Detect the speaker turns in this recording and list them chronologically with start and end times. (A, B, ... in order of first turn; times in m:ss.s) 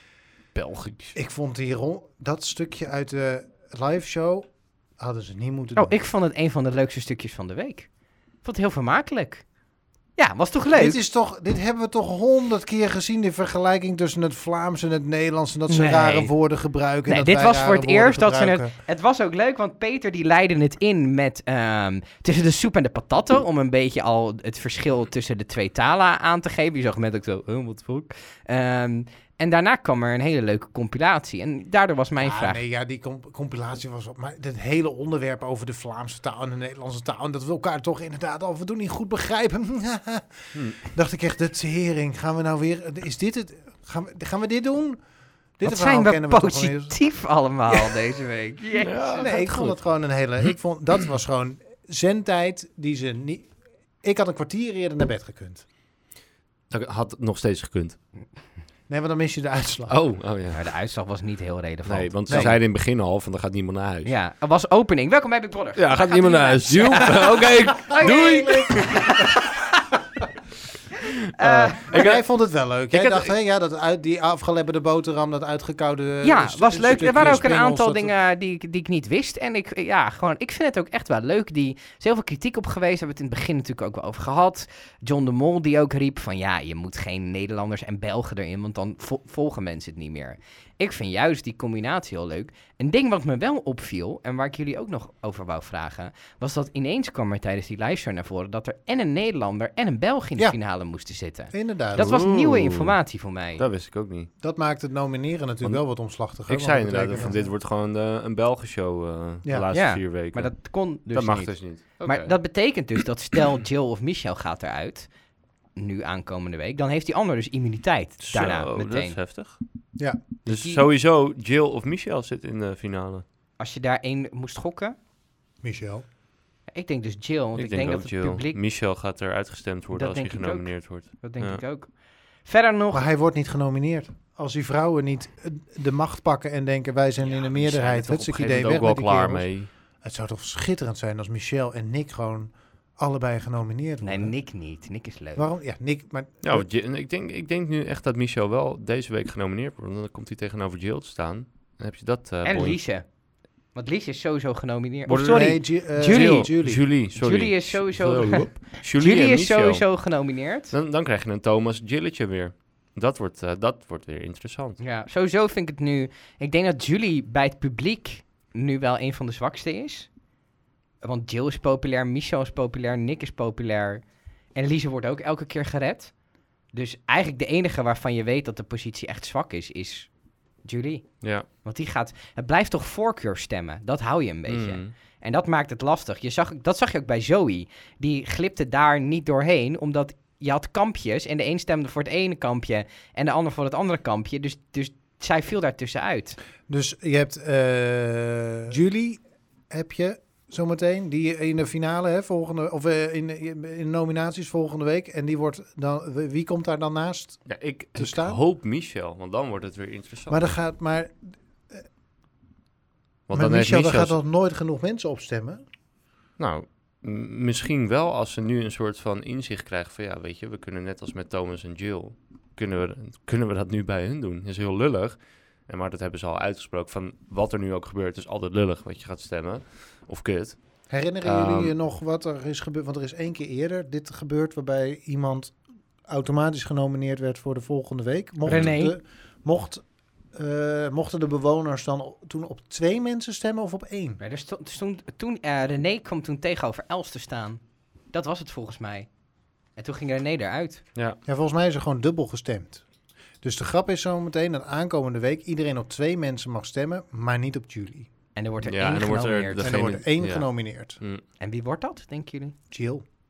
0:00.6-0:01.2 A
0:01.2-0:06.0 B
0:05.8-0:07.9 C
0:08.4-0:09.4 C
0:10.2-0:11.0 C
0:10.8-0:18.7 B
0:15.7-0:16.3 C
0:17.1-0:32.6 C
0:32.2-0:45.0 B
0:40.5-0:40.9 A
0:45.6-0:47.0 B
0:45.6-0:49.2 C
0:48.8-0:49.8 A
0:49.2-0:53.5 B
0:54.0-0:55.6 B
0:56.7-0:58.0 A
0:58.9-1:00.0 B
0:59.9-1:00.6 A
1:00.5-1:02.6 C
1:01.9-1:04.1 A
1:02.3-1:02.6 B
1:04.0-1:09.3 C
1:05.8-1:09.3 A
1:07.9-1:08.9 B
1:11.4-1:11.9 C
1:11.4-1:18.1 B
1:11.9-1:12.2 A
1:12.9-1:13.3 A
1:16.2-1:43.6 C
1:17.0-1:17.4 A
1:41.5-1:42.1 B
1:42.0-1:43.0 A
1:43.6-1:44.3 A
1:44.4-1:47.5 B
1:46.4-1:52.4 A
1:49.7-1:55.1 C
1:55.8-1:59.2 C
1:58.2-1:59.6 A
2:00.0-2:00.2 B
2:00.4-2:03.2 A
2:00.5-2:00.8 C
2:03.6-2:05.0 C
2:05.6-2:06.0 B
2:06.7-2:08.6 C
2:07.6-2:11.6 A
2:09.9-2:11.9 C
2:12.4-2:13.1 C
2:12.9-2:19.5 B
2:17.2-2:17.6 C
2:17.6-2:19.7 A
2:20.0-2:24.3 B
2:24.0-2:25.5 C
2:25.4-2:26.7 B
2:26.4-2:32.8 A
2:32.4-2:33.1 C
2:33.7-2:36.5 C
2:35.1-2:40.1 A
2:35.3-2:36.8 B
2:37.2-2:40.7 C
2:40.7-2:44.8 A
2:44.8-2:50.1 C
2:51.0-2:54.0 C
2:54.5-2:56.2 C
2:56.7-3:00.1 C
3:00.6-3:16.4 C
3:01.2-3:01.5 A
3:04.5-3:04.9 A
3:16.7-3:28.4 B
3:27.5-3:30.5 A
3:30.3-3:31.2 B
3:33.3-3:34.2 A
3:33.3-3:35.6 B
3:36.4-3:50.6 A
3:50.9-3:55.6 B
3:51.2-3:51.8 A
3:56.1-4:04.2 B
3:58.4-3:58.8 A
3:58.5-3:59.0 C
4:04.2-4:09.1 C
4:09.8-4:10.8 C
4:11.3-4:12.8 B
4:13.4-4:18.1 B
4:18.4-4:19.7 C
4:18.6-4:21.2 A
4:19.6-4:21.0 B
4:21.4-4:22.6 C
4:22.7-4:23.0 B